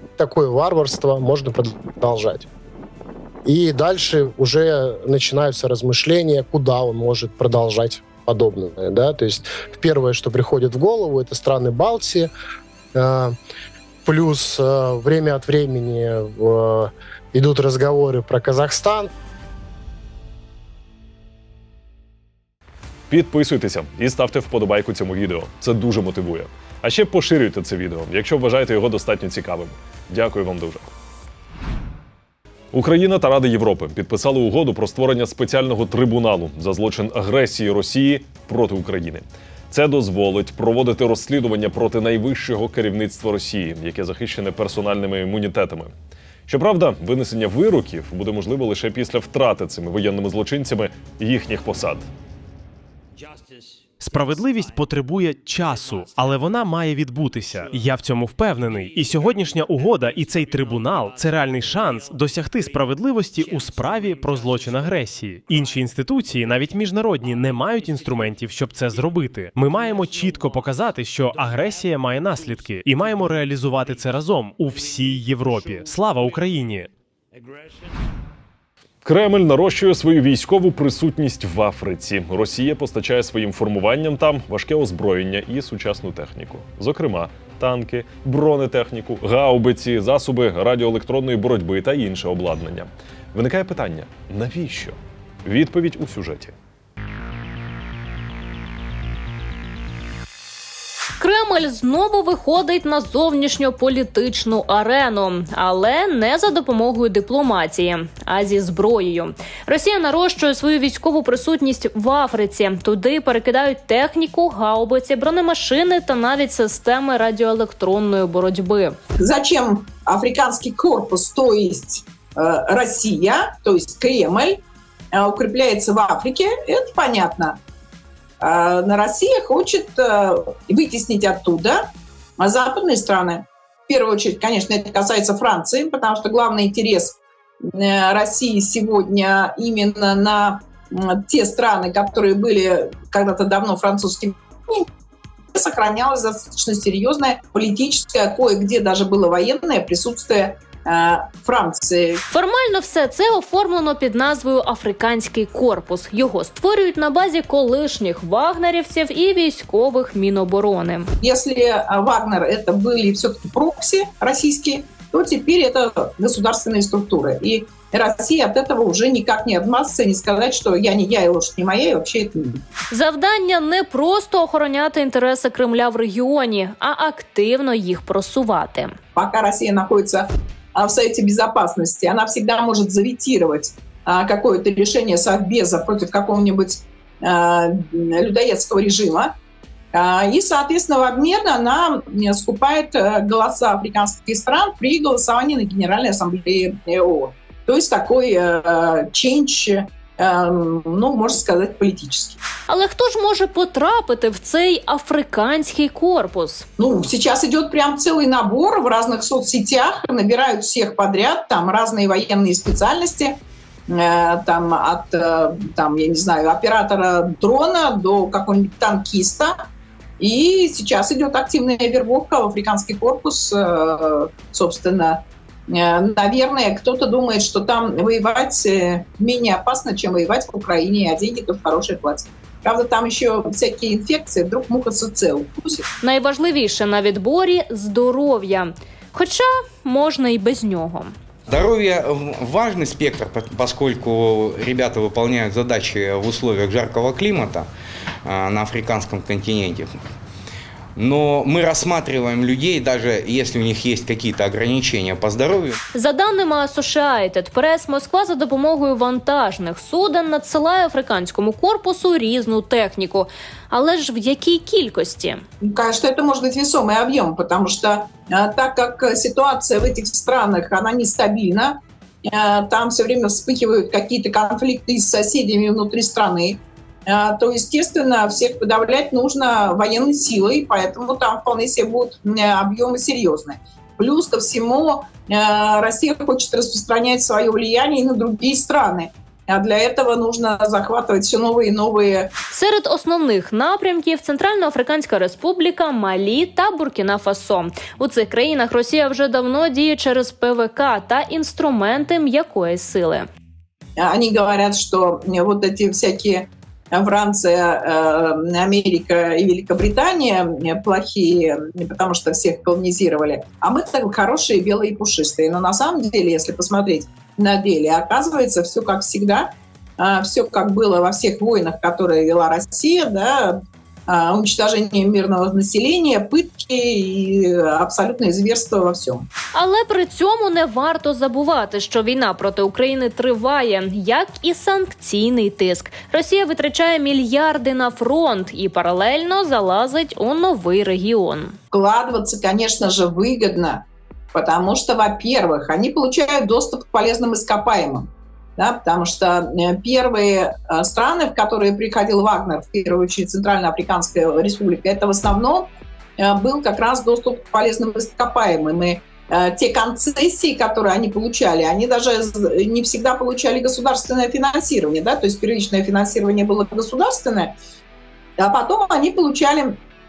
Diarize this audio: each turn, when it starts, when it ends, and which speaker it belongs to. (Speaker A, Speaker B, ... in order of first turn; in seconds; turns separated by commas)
Speaker A: 0.2-2.5, Speaker A: 3.5-12.3, Speaker A: 12.9-13.3, Speaker A: 14.1-19.1, Speaker B: 23.1-30.9, Speaker B: 32.7-45.9, Speaker B: 46.5-52.1, Speaker C: 54.0-76.9, Speaker B: 79.0-96.5, Speaker D: 101.2-119.0, Speaker E: 119.2-124.6, Speaker E: 125.1-127.6, Speaker E: 128.4-131.9, Speaker E: 132.4-144.8, Speaker E: 145.5-152.1, Speaker D: 152.3-161.1, Speaker E: 161.2-172.6, Speaker D: 172.9-178.9, Speaker E: 179.2-189.3, Speaker E: 189.9-202.4, Speaker D: 202.7-206.7, Speaker E: 206.8-213.4, Speaker E: 213.9-219.6, Speaker E: 220.2-235.8, Speaker D: 236.0-241.1, Speaker F: 241.5-247.7, Speaker F: 248.2-250.0, Speaker F: 251.0-255.8, Speaker D: 255.9-265.4, Speaker E: 265.6-292.3, Speaker D: 292.5-303.3, Speaker E: 304.0-323.6, Speaker E: 324.1-329.2, Speaker D: 329.5-341.6, Speaker E: 341.7-343.8, Speaker E: 344.3-348.1, Speaker E: 348.6-367.6, Speaker E: 368.4-369.8